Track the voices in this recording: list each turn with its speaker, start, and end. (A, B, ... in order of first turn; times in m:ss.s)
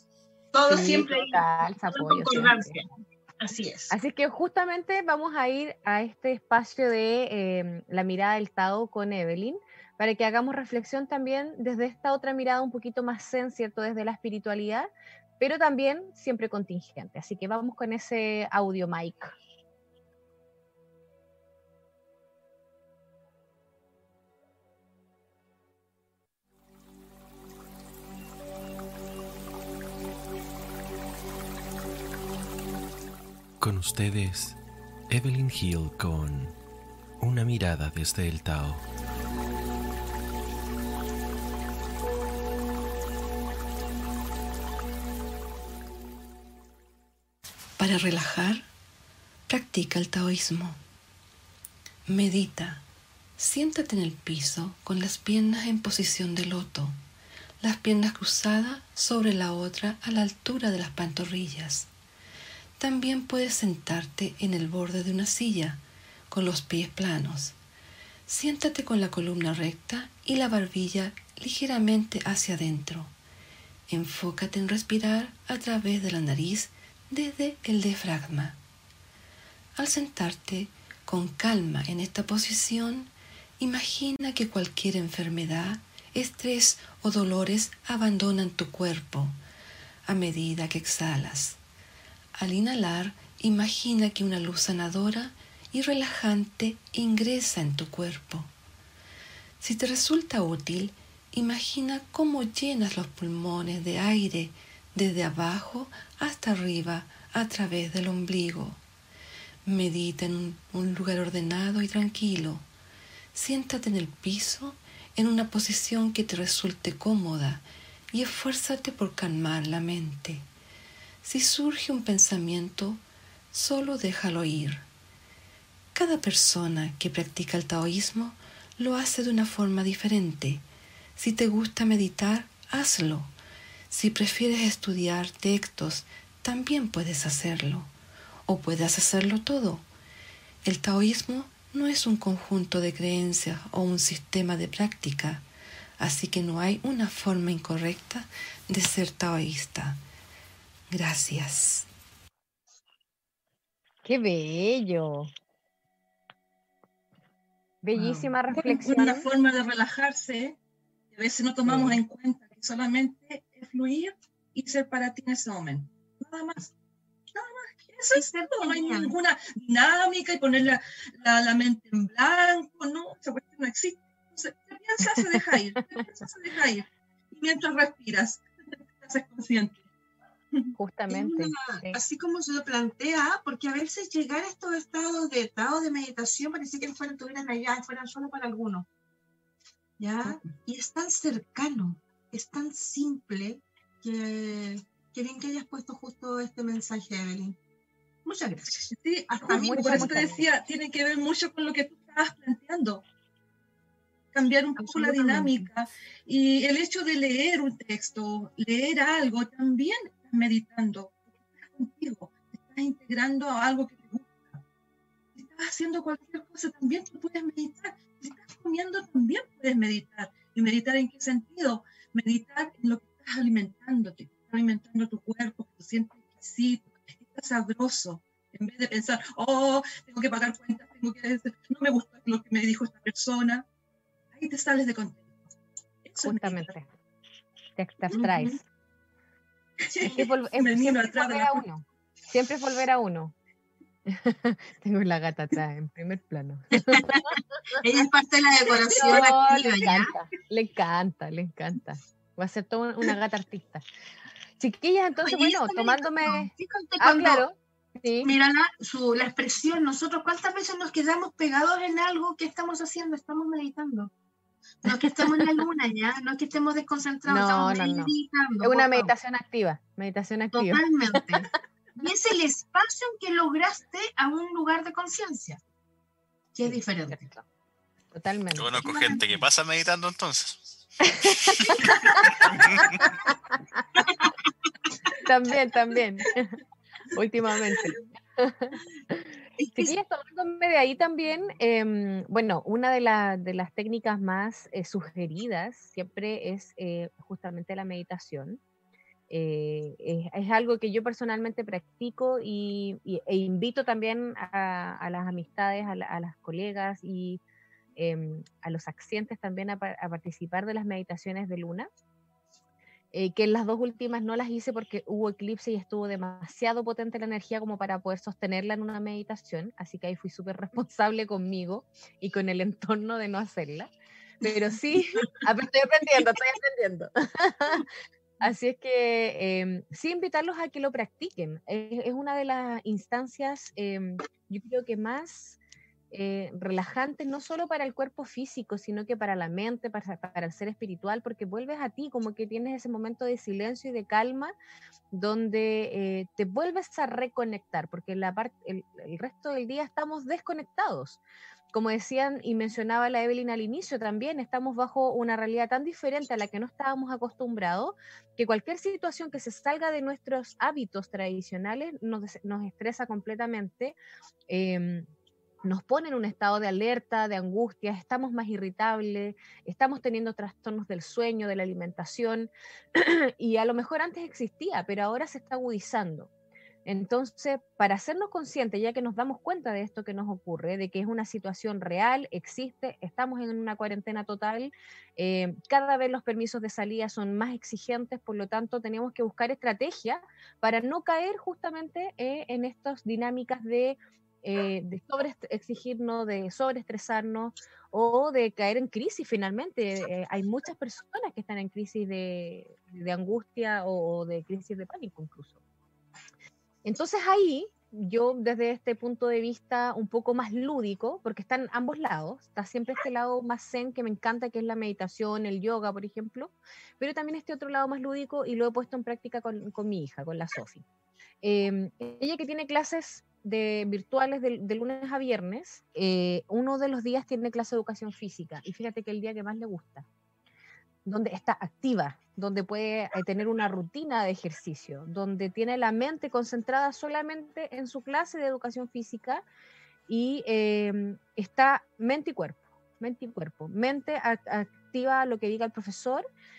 0:00.5-0:02.9 A
0:00.7-0:02.8 B
0:03.4-0:03.9 A
0:03.9-0:19.4 B
0:33.6-0:36.6 C
0:37.2-0:38.8 C
0:47.8-0:48.7 D
0:49.5-0:50.8 D
0:52.1-0:52.8 D
0:53.4-0:57.0 D
0:57.6-1:01.9 D
1:02.8-1:07.6 D
1:08.3-1:13.1 D
1:13.9-1:18.6 D
1:19.8-1:29.4 D
1:30.1-1:31.6 D
1:32.4-1:38.5 D
1:39.6-1:48.8 D
1:49.7-1:52.7 D
1:53.3-2:00.5 D
2:01.2-2:04.9 D
2:05.9-2:10.6 D
2:11.2-2:13.3 D
2:13.9-2:17.9 D
2:18.5-2:19.9 D
2:20.6-2:25.5 D
2:26.0-2:30.0 D
2:30.9-2:31.9 D
2:34.0-2:35.3 B
2:37.8-2:39.3 B
2:38.0-2:40.6 E
2:41.1-2:46.7 E
2:41.6-2:42.0 B
2:47.3-2:58.4 E
2:48.1-2:49.1 A
2:59.0-2:59.9 E
3:00.8-3:02.0 B
3:01.1-3:08.9 A
3:10.0-3:17.6 A
3:18.3-3:20.3 A
3:18.8-3:23.0 E
3:19.5-3:20.5 B
3:24.3-3:34.6 E
3:24.8-3:25.5 A
3:25.0-3:25.5 B
3:35.4-3:53.7 E
3:54.3-3:55.5 E
3:56.0-3:56.7 E
3:56.2-3:56.9 B
3:57.8-3:58.6 B
3:58.1-3:58.6 E
3:59.8-4:01.6 E
4:00.0-4:03.3 B
4:04.1-4:07.8 B
4:06.9-4:07.3 A
4:07.8-4:10.1 A
4:08.7-4:09.3 E
4:09.0-4:13.8 B
4:14.6-4:18.3 B
4:15.2-4:17.4 A
4:18.2-4:24.1 A
4:24.8-4:29.1 A
4:27.3-4:28.1 B
4:28.6-4:31.5 B
4:30.5-4:35.6 A
4:36.6-4:37.2 A
4:37.1-4:37.4 B
4:38.1-4:39.1 B
4:38.6-4:43.0 F
4:41.2-4:41.8 B
4:42.4-4:42.9 E
4:45.2-4:46.6 B
4:47.1-4:58.6 B
4:49.6-4:50.0 E
4:59.3-5:07.4 B
5:08.0-5:11.9 B
5:13.1-5:23.9 B
5:24.4-5:27.9 B
5:28.4-5:35.6 B
5:36.1-5:44.5 B
5:45.1-5:51.2 B
5:51.7-6:04.0 B
6:04.5-6:05.1 B
6:05.6-6:16.3 B
6:16.9-6:45.6 B
6:46.8-7:00.8 B
7:01.4-7:10.1 B
7:11.1-7:19.4 B
7:20.1-7:26.2 B